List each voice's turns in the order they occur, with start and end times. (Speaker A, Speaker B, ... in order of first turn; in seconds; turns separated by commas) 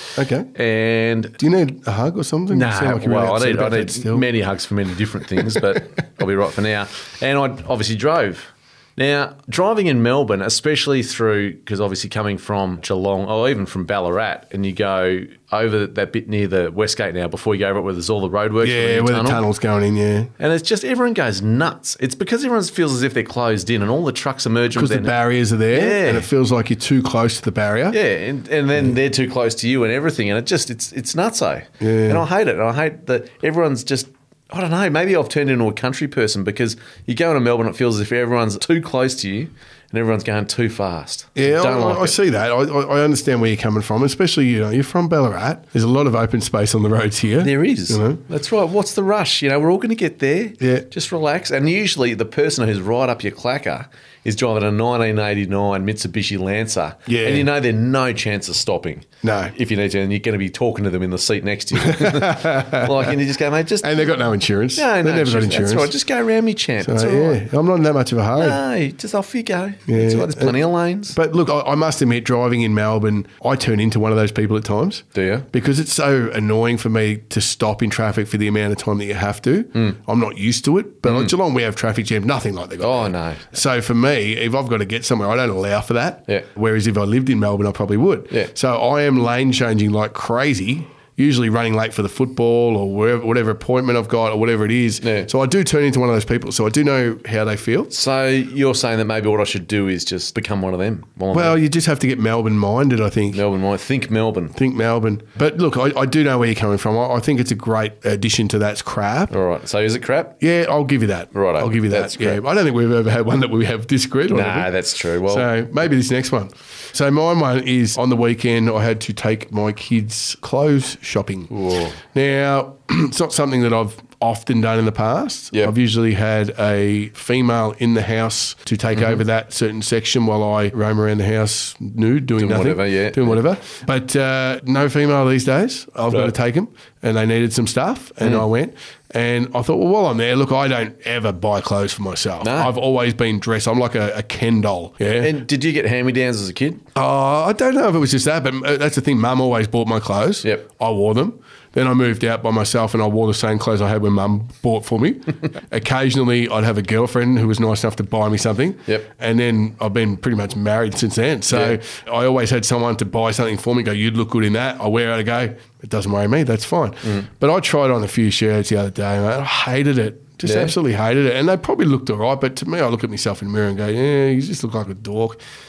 Speaker A: 0.1-0.5, Speaker B: 0.5-1.4, Speaker A: 1.4-4.3, Speaker B: 2.5-19.4, Speaker A: 5.4-5.6, Speaker A: 18.6-20.3, Speaker B: 20.4-25.1, Speaker A: 24.7-28.0, Speaker B: 25.7-26.3, Speaker B: 27.9-42.2, Speaker A: 31.8-32.2, Speaker A: 41.4-48.2, Speaker B: 47.4-64.2, Speaker A: 50.6-50.9, Speaker A: 57.1-57.5, Speaker A: 59.2-59.5, Speaker A: 61.8-63.2, Speaker A: 63.8-65.9, Speaker B: 64.8-67.4, Speaker A: 66.8-68.6, Speaker B: 68.4-71.2, Speaker A: 69.9-97.9, Speaker B: 75.1-75.5, Speaker B: 81.0-81.3, Speaker B: 82.8-83.5, Speaker B: 95.0-95.3, Speaker B: 97.9-101.6, Speaker A: 101.3-103.4, Speaker B: 103.3-104.5, Speaker A: 104.5-109.3, Speaker B: 109.3-110.4, Speaker A: 110.4-114.7, Speaker B: 111.3-112.4, Speaker B: 114.3-115.5, Speaker A: 115.2-121.5, Speaker B: 121.5-122.0, Speaker A: 122.0-145.3, Speaker B: 128.9-129.2, Speaker B: 132.4-133.4, Speaker B: 136.1-136.3, Speaker B: 142.4-142.7, Speaker B: 145.2-146.8, Speaker A: 146.9-175.4, Speaker B: 161.5-161.8, Speaker B: 170.4-170.7